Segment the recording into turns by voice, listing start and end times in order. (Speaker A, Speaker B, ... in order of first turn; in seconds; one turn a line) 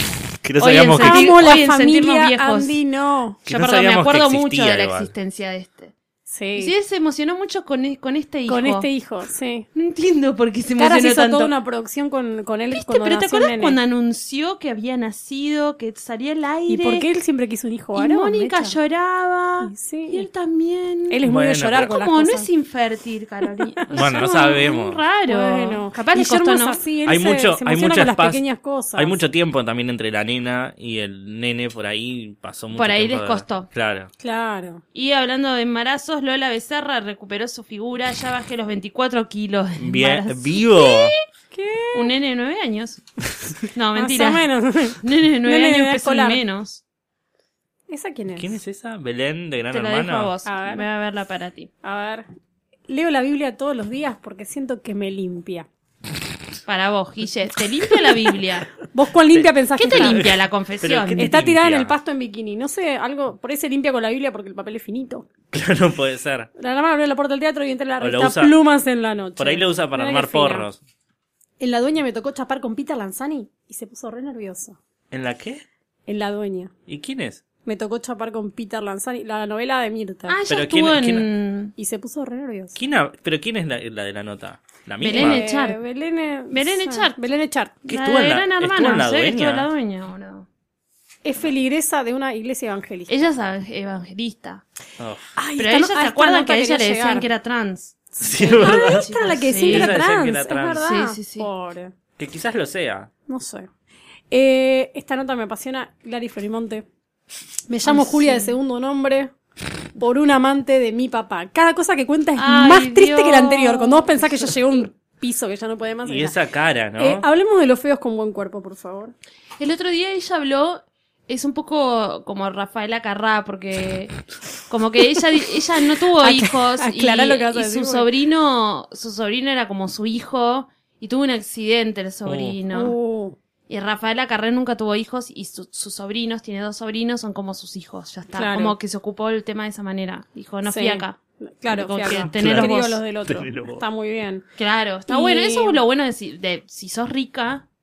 Speaker A: 0.4-1.4
Speaker B: 0.6-2.8
Speaker C: 1.0-3.4
Speaker A: 3.5-5.1
Speaker B: 3.5-5.9
Speaker C: 6.3-6.7
Speaker B: 6.6-8.9
Speaker C: 8.5-9.7
Speaker B: 9.7-11.5
Speaker C: 10.8-13.8
Speaker B: 12.7-17.1
Speaker C: 16.7-18.8
Speaker B: 17.9-21.2
Speaker C: 19.6-20.3
Speaker C: 21.1-22.5
Speaker A: 21.2-21.9
Speaker B: 21.8-26.8
Speaker A: 23.9-25.0
Speaker C: 25.3-29.1
Speaker A: 27.0-28.4
Speaker A: 28.9-34.1
Speaker B: 32.7-33.7
Speaker C: 34.2-34.8
Speaker B: 34.9-41.1
Speaker A: 39.8-41.1
Speaker C: 41.5-42.1
Speaker B: 41.9-43.0
Speaker B: 43.7-44.5
Speaker C: 44.0-46.4
Speaker B: 45.0-46.8
Speaker C: 47.9-48.5
Speaker A: 48.4-50.3
Speaker B: 49.7-51.7
Speaker C: 50.4-50.9
Speaker C: 51.8-52.2
Speaker C: 52.9-55.7
Speaker B: 56.7-58.7
Speaker C: 58.9-60.3
Speaker A: 59.3-61.9
Speaker B: 59.8-61.3
Speaker C: 61.2-65.3
Speaker A: 65.5-66.5
Speaker C: 66.6-70.7
Speaker A: 68.0-68.5
Speaker A: 69.4-70.8
Speaker C: 71.6-74.8
Speaker A: 75.1-75.6
Speaker C: 76.1-76.7
Speaker A: 76.9-77.4
Speaker C: 77.6-80.3
Speaker B: 80.3-81.7
Speaker A: 80.5-81.2
Speaker C: 81.8-82.7
Speaker A: 82.7-85.4
Speaker B: 85.0-85.8
Speaker C: 85.1-87.8
Speaker B: 86.5-87.2
Speaker B: 87.8-90.5
Speaker A: 87.9-89.7
Speaker C: 91.2-93.1
Speaker B: 93.1-94.6
Speaker A: 95.0-95.3
Speaker C: 95.4-97.3
Speaker B: 95.6-100.0
Speaker A: 98.2-100.9
Speaker C: 98.4-101.9
Speaker B: 100.8-101.5
Speaker A: 102.2-103.1
Speaker C: 103.3-103.7
Speaker C: 104.3-106.8
Speaker C: 107.7-109.3
Speaker B: 107.8-108.6
Speaker C: 110.0-116.4
Speaker B: 112.3-114.5
Speaker A: 116.0-117.2
Speaker C: 117.0-119.1
Speaker B: 119.6-124.1
Speaker B: 124.7-132.9
Speaker C: 126.2-128.1
Speaker A: 132.2-132.6
Speaker C: 132.7-133.4
Speaker B: 133.7-143.0
Speaker C: 138.3-138.8
Speaker C: 140.7-144.4
Speaker A: 142.3-143.8
Speaker B: 144.6-147.6
Speaker C: 145.1-145.8